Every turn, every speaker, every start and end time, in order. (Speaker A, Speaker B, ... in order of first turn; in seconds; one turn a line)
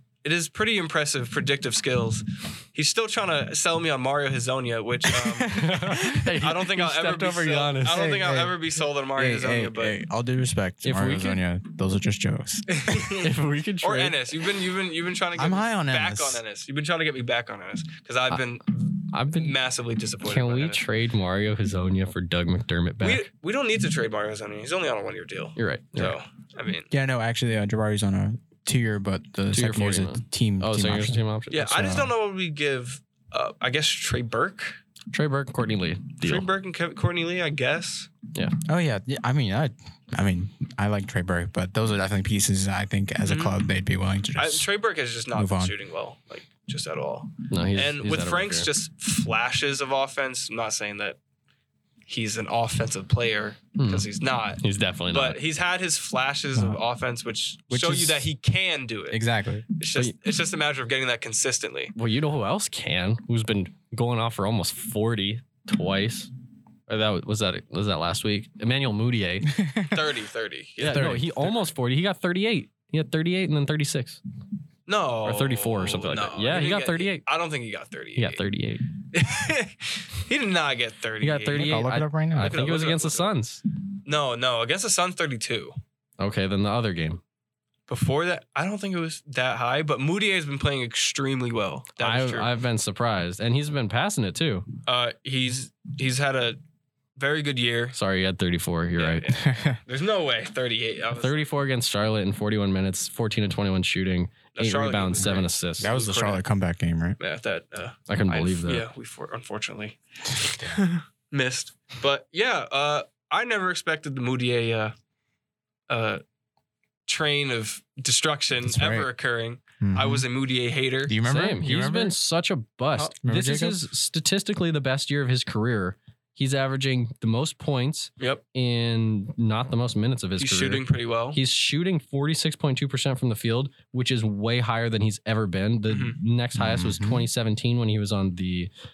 Speaker A: 0.2-10.0
Speaker B: 5.5-8.1
Speaker C: 5.5-6.3
Speaker C: 7.9-8.6
Speaker C: 9.1-12.7
Speaker B: 10.8-11.4
Speaker A: 12.7-20.8
Speaker B: 13.1-14.2
Speaker C: 15.4-16.4
Speaker B: 19.1-19.6
Speaker B: 20.2-23.3
Speaker A: 23.0-26.9
Speaker B: 25.6-26.1
Speaker C: 26.9-32.1
Speaker B: 29.5-31.6
Speaker A: 31.5-34.8
Speaker B: 35.1-36.5
Speaker A: 36.2-38.1
Speaker C: 38.6-44.7
Speaker A: 43.2-43.7
Speaker A: 44.4-51.2
Speaker C: 45.3-45.7
Speaker B: 47.5-48.7
Speaker A: 52.1-59.2
Speaker B: 53.8-54.1
Speaker B: 54.6-55.4
Speaker C: 56.5-56.8
Speaker C: 57.7-58.3
Speaker C: 59.1-59.6
Speaker A: 59.8-61.9
Speaker B: 62.0-66.3
Speaker B: 66.9-69.5
Speaker C: 69.5-70.1
Speaker A: 69.9-71.2
Speaker B: 70.8-74.2
Speaker C: 70.8-71.7
Speaker A: 74.9-78.4
Speaker B: 75.2-77.2
Speaker B: 78.2-78.9
Speaker A: 79.1-81.8
Speaker B: 81.2-83.6
Speaker C: 81.5-82.6
Speaker A: 82.4-83.3
Speaker A: 84.0-85.8
Speaker B: 86.2-87.2
Speaker A: 87.9-92.5
Speaker B: 92.0-94.7
Speaker A: 94.9-96.6
Speaker A: 97.2-98.0
Speaker B: 97.9-99.3
Speaker A: 99.0-101.5
Speaker C: 99.4-99.8
Speaker B: 101.1-105.9
Speaker A: 104.5-106.4
Speaker C: 105.2-107.2
Speaker A: 107.2-114.9
Speaker B: 108.1-108.9
Speaker A: 115.9-116.2
Speaker A: 117.1-121.2
Speaker C: 118.6-119.1
Speaker C: 119.8-120.3
Speaker C: 121.0-122.2
Speaker B: 121.2-138.7
Speaker C: 123.2-123.9
Speaker A: 130.4-131.4
Speaker A: 135.9-136.2
Speaker C: 136.6-137.3